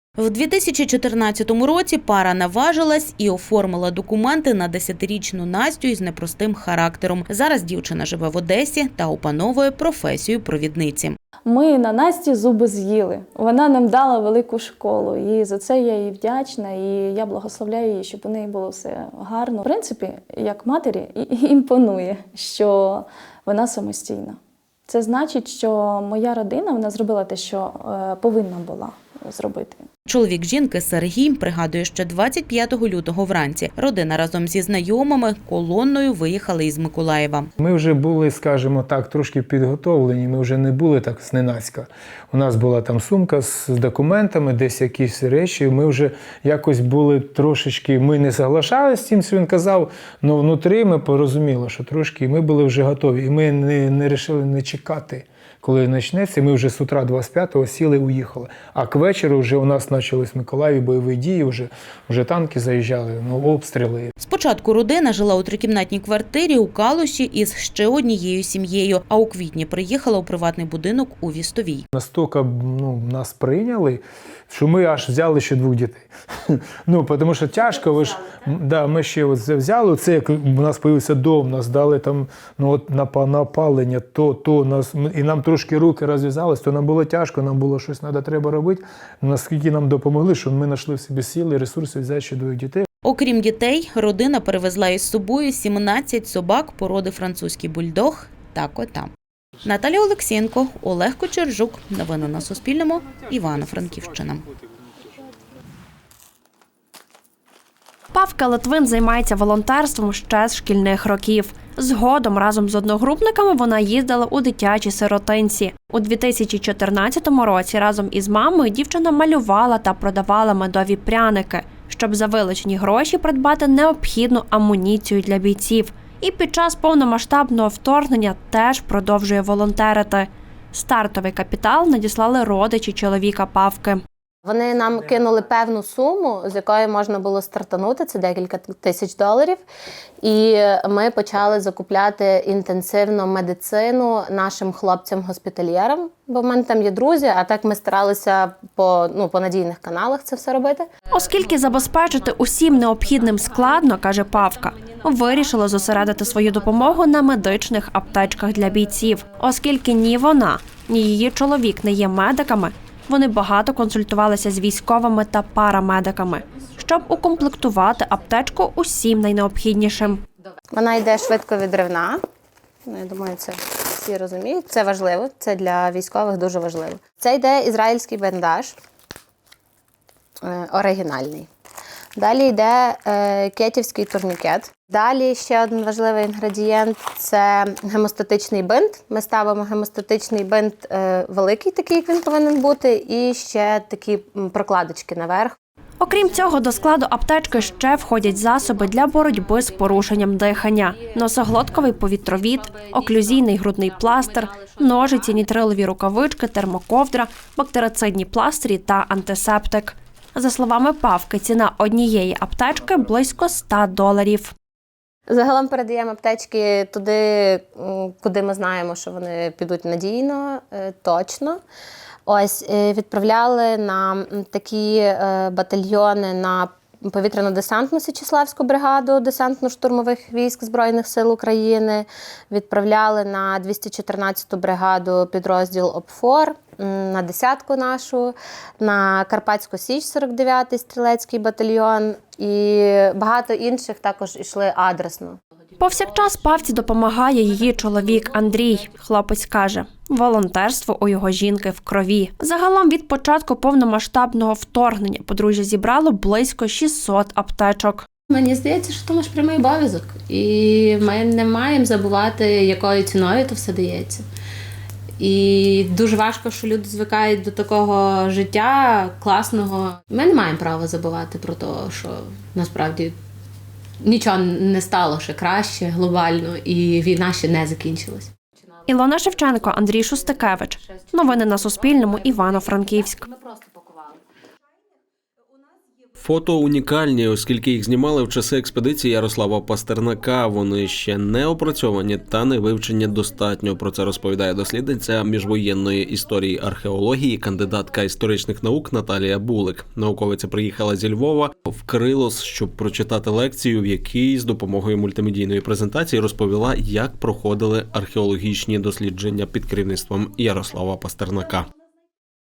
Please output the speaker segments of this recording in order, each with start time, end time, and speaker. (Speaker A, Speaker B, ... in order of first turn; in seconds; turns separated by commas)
Speaker A: 0.2-11.2, Speaker B: 11.4-24.4, Speaker B: 24.9-29.8, Speaker A: 30.1-37.5, Speaker C: 37.6-64.1, Speaker A: 64.2-71.8, Speaker C: 71.9-92.8, Speaker A: 93.0-99.1, Speaker A: 99.6-104.4, Speaker D: 108.1-134.0, Speaker E: 134.4-139.6, Speaker E: 140.2-150.9, Speaker D: 151.1-170.2, Speaker E: 170.7-172.2, Speaker E: 172.9-178.7, Speaker E: 180.5-181.5, Speaker E: 182.2-195.5, Speaker D: 196.0-214.5, Speaker E: 215.3-221.6, Speaker E: 222.3-245.4, Speaker D: 245.8-258.1, Speaker F: 258.3-264.0, Speaker F: 266.1-267.3, Speaker F: 270.1-272.0, Speaker F: 272.6-273.1, Speaker F: 274.0-278.2, Speaker D: 278.9-283.2, Speaker G: 286.2-311.7